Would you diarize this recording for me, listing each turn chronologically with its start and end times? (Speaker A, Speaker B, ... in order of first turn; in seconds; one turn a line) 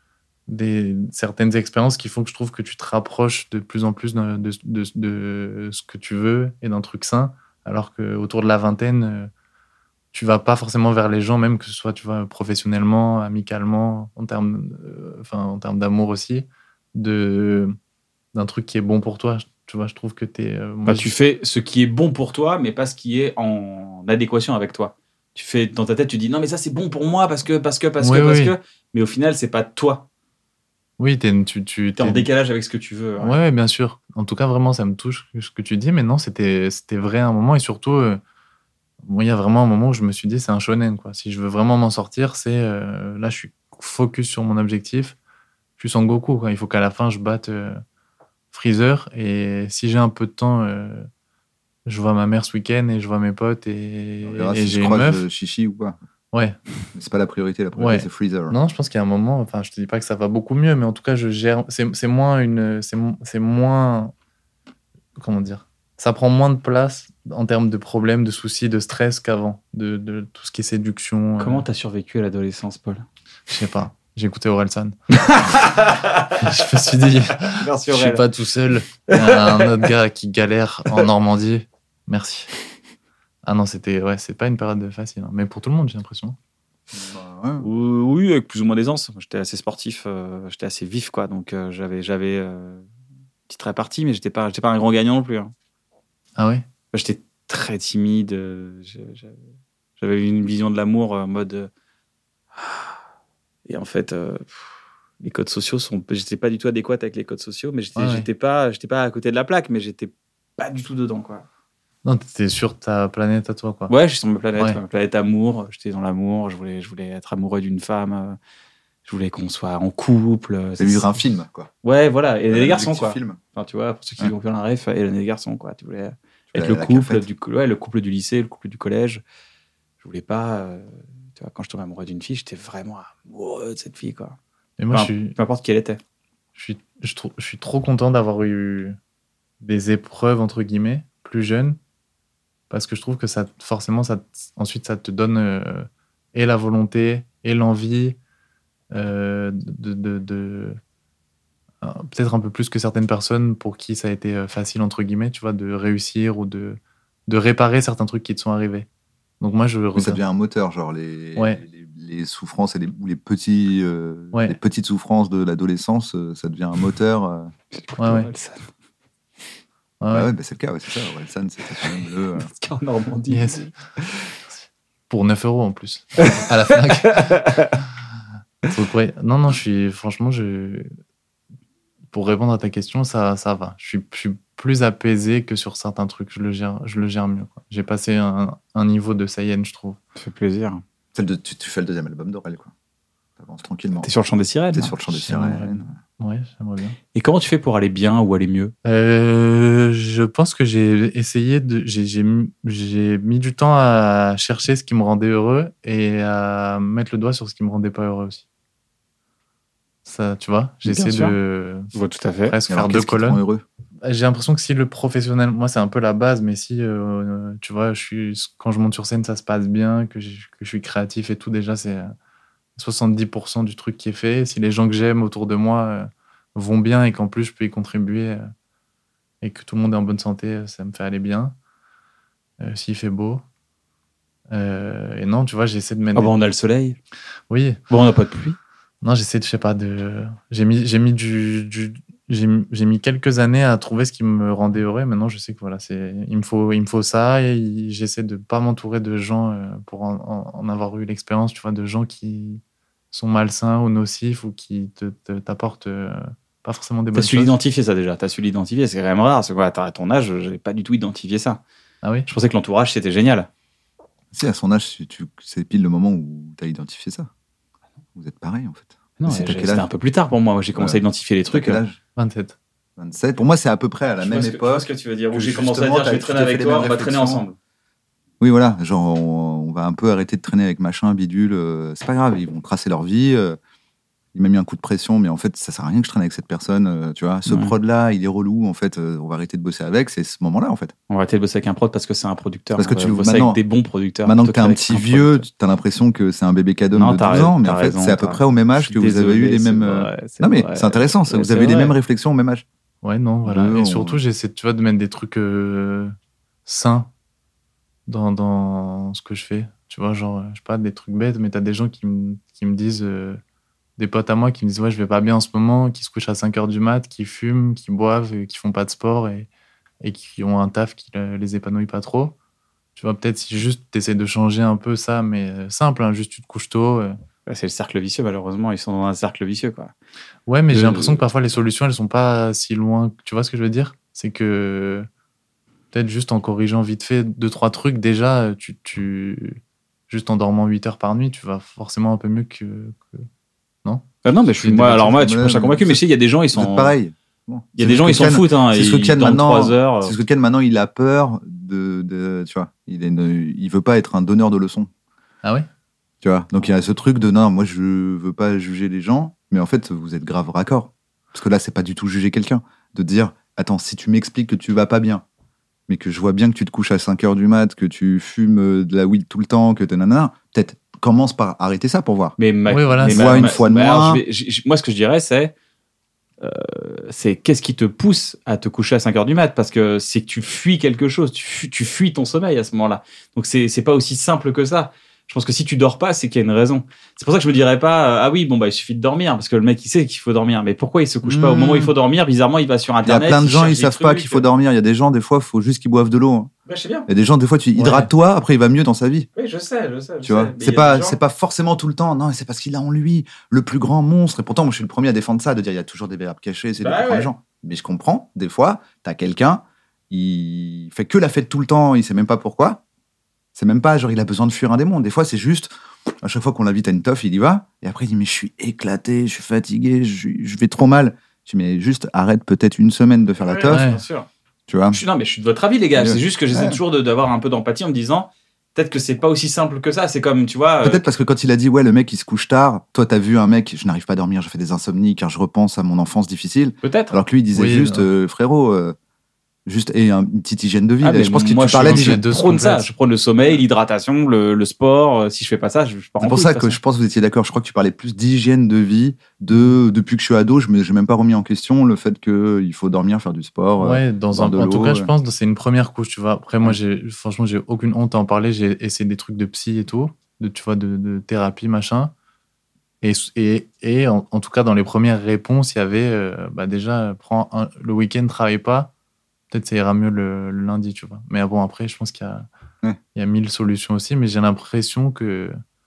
Speaker A: 0.5-9.3
Speaker A: 10.1-17.7
Speaker A: 18.3-21.1
Speaker B: 20.9-30.1
Speaker A: 28.0-28.5
Speaker A: 31.0-32.3
Speaker B: 32.0-33.4
Speaker A: 33.2-38.2
Speaker A: 39.0-45.2
Speaker A: 45.8-47.8
Speaker A: 48.5-51.1
Speaker A: 51.9-55.2
Speaker C: 54.2-56.0
Speaker A: 56.3-56.6
Speaker C: 56.9-58.6
Speaker A: 57.7-64.1
Speaker A: 65.2-71.6
Speaker B: 71.4-73.0
Speaker A: 73.5-74.9
Speaker B: 75.2-78.2
Speaker A: 76.4-82.5
Speaker B: 79.1-79.9
Speaker A: 83.5-86.3
Speaker C: 86.9-87.7
Speaker B: 87.6-92.8
Speaker B: 93.5-95.5
Speaker A: 96.4-96.6
Speaker B: 96.9-99.4
Speaker B: 100.0-101.7
Speaker B: 102.5-102.9
Speaker B: 103.7-104.7
Speaker B: 105.2-111.4
Speaker A: 108.0-108.3
Speaker A: 112.0-113.9
Speaker B: 113.9-118.4
Speaker B: 119.0-121.2
Speaker C: 120.8-121.7
Speaker B: 121.8-129.2
Speaker C: 122.5-123.4
Speaker C: 126.5-127.2
Speaker B: 130.0-134.4
Speaker A: 134.8-135.3
Speaker B: 134.9-136.0
Speaker A: 136.6-139.0
Speaker A: 139.6-141.8
Speaker A: 142.7-148.2
Speaker A: 148.9-150.8
Speaker A: 151.8-158.9
Speaker A: 159.4-160.2
Speaker C: 159.9-167.5
Speaker A: 161.3-161.6
Speaker B: 167.7-168.7
Speaker A: 168.0-168.3
Speaker A: 170.0-170.3
Speaker C: 170.1-172.5
Speaker B: 171.9-174.3
Speaker A: 173.3-173.7
Speaker A: 175.1-177.3
Speaker B: 176.2-177.7
Speaker A: 178.7-180.9
Speaker A: 182.1-190.0
Speaker B: 190.2-190.8
Speaker C: 191.1-192.7
Speaker C: 193.4-194.1
Speaker B: 194.0-194.9
Speaker C: 194.7-195.9
Speaker A: 195.1-197.0
Speaker B: 197.1-198.7
Speaker A: 198.8-208.4
Speaker A: 210.0-211.9
Speaker B: 210.8-211.4
Speaker B: 211.9-212.6
Speaker A: 212.5-213.4
Speaker C: 212.7-213.6
Speaker A: 214.0-222.1
Speaker A: 222.8-228.4
Speaker A: 229.4-231.5
Speaker A: 232.6-233.4
Speaker A: 234.5-236.3
Speaker B: 236.1-237.0
Speaker A: 237.5-237.8
Speaker B: 237.9-238.6
Speaker A: 239.0-257.6
Speaker B: 257.1-261.6
Speaker A: 262.0-262.3
Speaker B: 262.3-263.5
Speaker C: 264.3-267.3
Speaker C: 268.1-269.9
Speaker B: 269.2-271.8
Speaker C: 270.7-272.0
Speaker A: 272.2-272.6
Speaker C: 273.0-277.4
Speaker B: 274.2-277.6
Speaker C: 278.4-283.6
Speaker C: 284.3-290.9
Speaker B: 287.5-287.7
Speaker B: 291.1-295.5
Speaker C: 292.8-293.6
Speaker C: 294.2-302.6
Speaker B: 296.9-301.9
Speaker A: 303.0-306.1
Speaker C: 303.4-304.2
Speaker A: 306.6-307.1
Speaker A: 308.1-313.4
Speaker A: 314.0-319.5
Speaker A: 320.0-322.3
Speaker A: 322.9-327.2
Speaker B: 327.5-329.9
Speaker A: 330.5-335.1
Speaker B: 330.7-331.2
Speaker A: 335.9-343.2
Speaker B: 344.2-346.9
Speaker C: 344.6-346.0
Speaker C: 346.5-354.9
Speaker B: 347.8-350.1
Speaker C: 356.2-365.2
Speaker C: 365.9-372.4
Speaker B: 372.4-375.5
Speaker A: 372.7-373.5
Speaker C: 373.0-374.2
Speaker B: 376.4-394.4
Speaker C: 391.2-391.9
Speaker C: 393.0-396.5
Speaker B: 396.7-397.1
Speaker C: 397.1-399.3
Speaker A: 397.8-398.1
Speaker B: 399.4-401.2
Speaker C: 400.2-412.8
Speaker B: 406.8-407.3
Speaker C: 413.5-423.9
Speaker B: 423.4-424.3
Speaker A: 423.7-424.0
Speaker C: 424.7-425.0
Speaker B: 424.9-431.0
Speaker C: 425.9-426.8
Speaker C: 430.8-438.9
Speaker B: 436.8-437.1
Speaker A: 437.5-438.1
Speaker C: 439.6-442.2
Speaker B: 441.0-446.8
Speaker A: 441.8-442.9
Speaker C: 446.2-455.1
Speaker A: 453.8-462.1
Speaker A: 463.0-468.9
Speaker A: 469.5-472.4
Speaker A: 473.1-475.6